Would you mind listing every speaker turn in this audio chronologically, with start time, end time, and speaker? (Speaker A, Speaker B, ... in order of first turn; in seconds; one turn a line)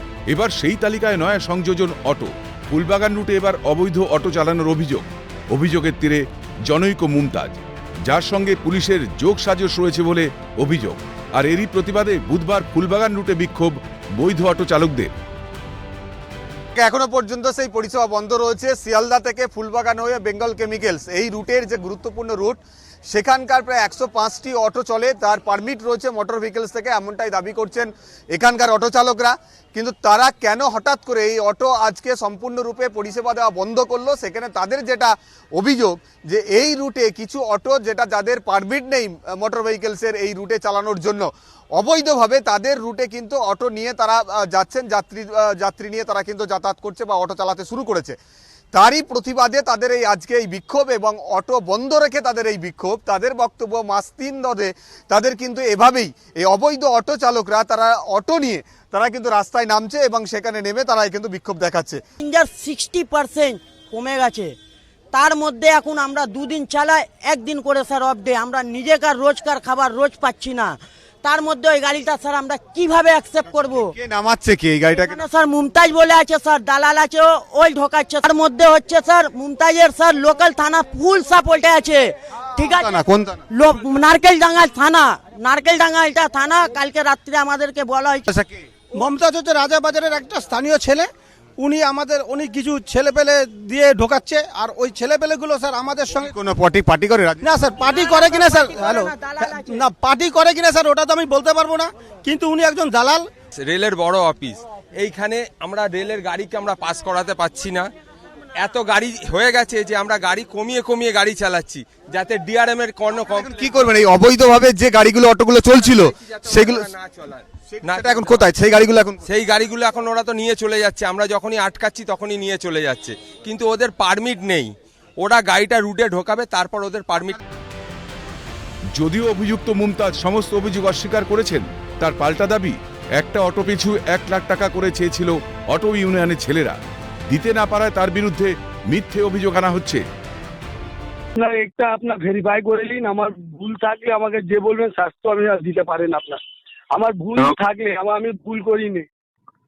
Speaker A: 0.3-15.1
Speaker B: 16.8-48.1
Speaker B: 48.7-62.0
Speaker C: 62.2-64.5
Speaker C: 65.1-73.9
Speaker B: 73.7-75.2
Speaker C: 75.0-82.9
Speaker B: 82.6-83.4
Speaker C: 83.5-88.3
Speaker B: 88.3-88.6
Speaker D: 89.0-91.1
Speaker D: 91.6-96.3
Speaker B: 96.2-97.5
Speaker D: 97.4-103.2
Speaker C: 97.8-99.8
Speaker E: 103.5-107.9
Speaker E: 108.6-113.7
Speaker B: 113.3-116.9
Speaker E: 115.8-118.4
Speaker B: 117.7-119.2
Speaker E: 119.2-127.4
Speaker A: 128.9-140.0
Speaker F: 141.3-146.4
Speaker F: 146.9-149.1